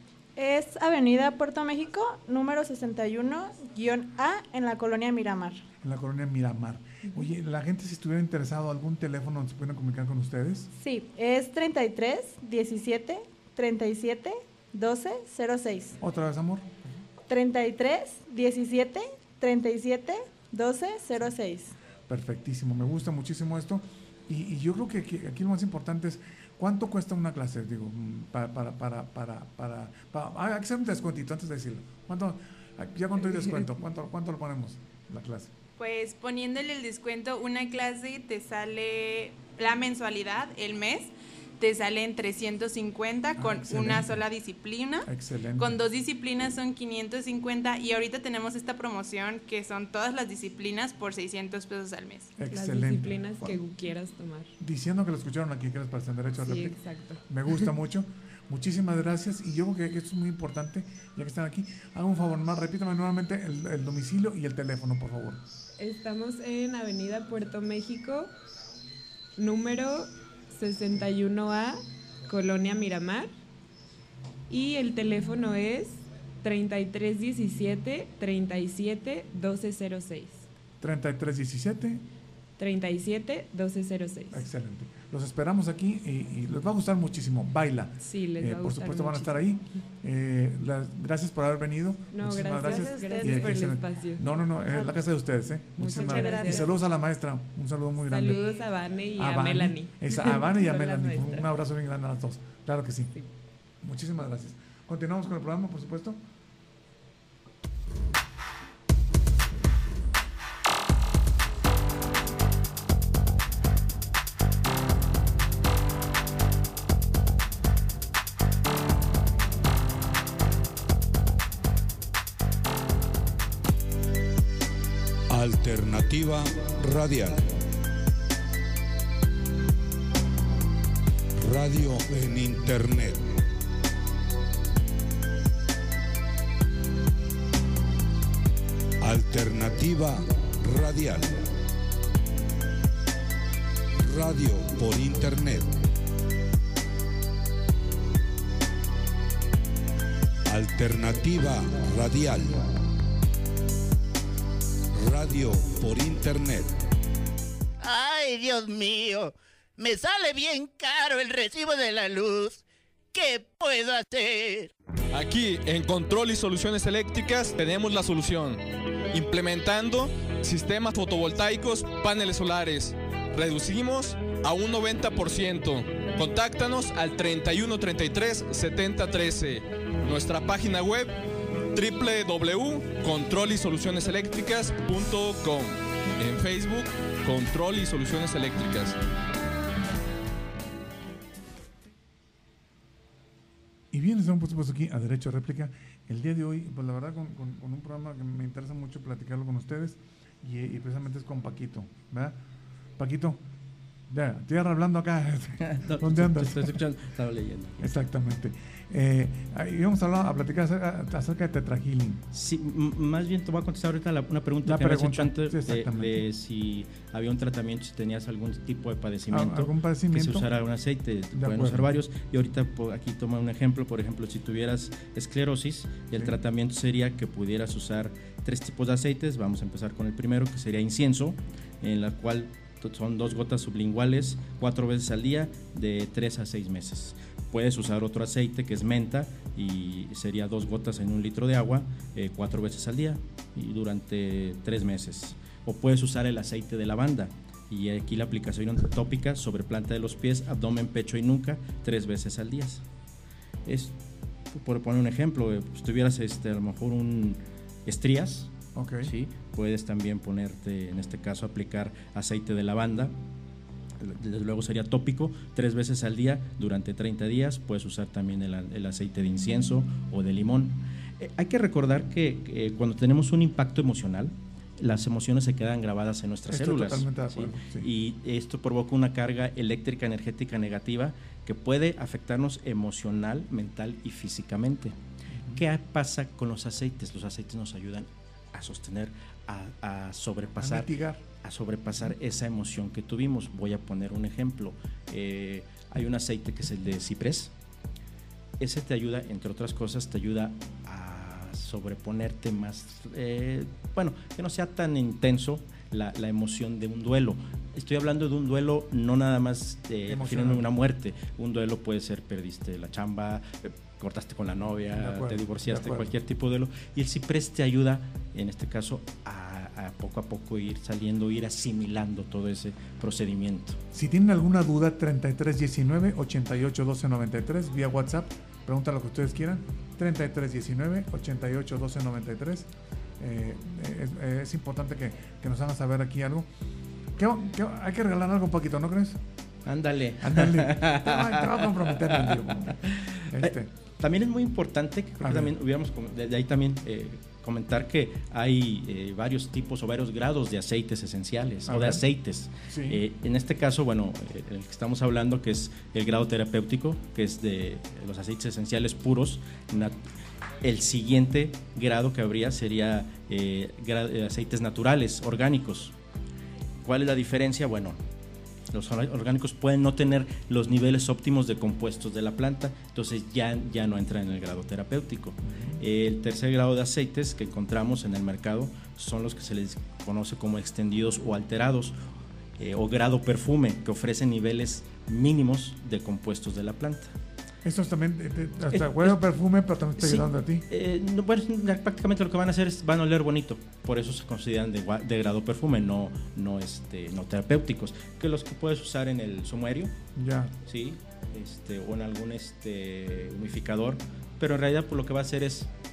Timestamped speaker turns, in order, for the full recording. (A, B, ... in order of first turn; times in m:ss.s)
0:00.4-0:05.6 A
0:05.8-0:10.7 B
0:10.8-0:16.0 A
0:16.0-0:16.8 B
0:17.3-0:21.7 A
0:22.1-0:35.5 B
0:35.8-0:52.4 C
0:43.4-0:44.2 B
0:45.0-0:45.8 B
0:52.4-0:53.6 B
0:52.4-0:54.5 D
0:54.6-1:05.4 B
0:56.4-0:57.2 D
1:05.8-1:08.3 D
1:09.4-1:13.3 D
1:14.5-1:20.4 D
1:20.8-1:22.0 B
1:22.6-1:24.4 D
1:24.3-1:38.5 B
1:28.0-1:29.4 D
1:32.1-1:34.2 D
1:32.7-1:33.2 A
1:35.8-1:36.7 D
1:36.0-1:36.6 A
1:38.1-1:41.5 D
1:39.2-1:43.1 B
1:43.8-1:46.2 B
2:05.3-2:07.5 E
2:11.4-2:13.4 E
2:19.0-2:21.4 E
2:24.0-2:25.7 E
2:30.4-2:32.7 E
2:34.9-2:36.8 E
2:37.8-2:42.6 F
2:43.1-2:44.7 F
2:45.1-3:01.1 G
3:01.7-3:09.0 G
3:13.9-3:22.4 B
3:23.0-3:23.4 B
3:24.1-3:26.8 B
3:25.6-3:27.8 H
3:27.8-3:32.2 B
3:32.3-4:12.8 H
3:34.6-3:36.2 B
3:39.3-3:40.5 B
3:41.3-3:41.9 B
4:13.6-4:13.9 H
4:14.5-4:18.5 H
4:18.8-4:19.1 B
4:19.0-4:23.1 H
4:24.0-4:44.9 H
4:36.5-4:37.9 B
4:45.3-4:45.6 B
4:45.5-4:50.9 H
4:50.6-4:51.2 B
4:51.4-4:57.5 H
4:58.6-5:23.8 H
5:10.1-5:10.7 B
5:14.9-5:16.1 B
5:23.9-5:32.7 B
5:33.2-5:36.5 B
5:37.2-5:39.2 B
5:39.6-6:00.0 H
5:40.2-5:43.7 B
5:45.2-5:45.5 B
5:51.7-5:52.0 B
5:52.7-5:53.0 B
6:00.6-6:05.9 H
6:06.8-6:08.0 H
6:08.7-6:21.9 H
6:15.4-6:15.8 B
6:22.6-6:27.2 H
6:27.6-6:30.6 B
6:28.7-6:29.2 H
6:30.0-6:39.9 H
6:40.2-6:40.5 B
6:40.6-6:45.7 H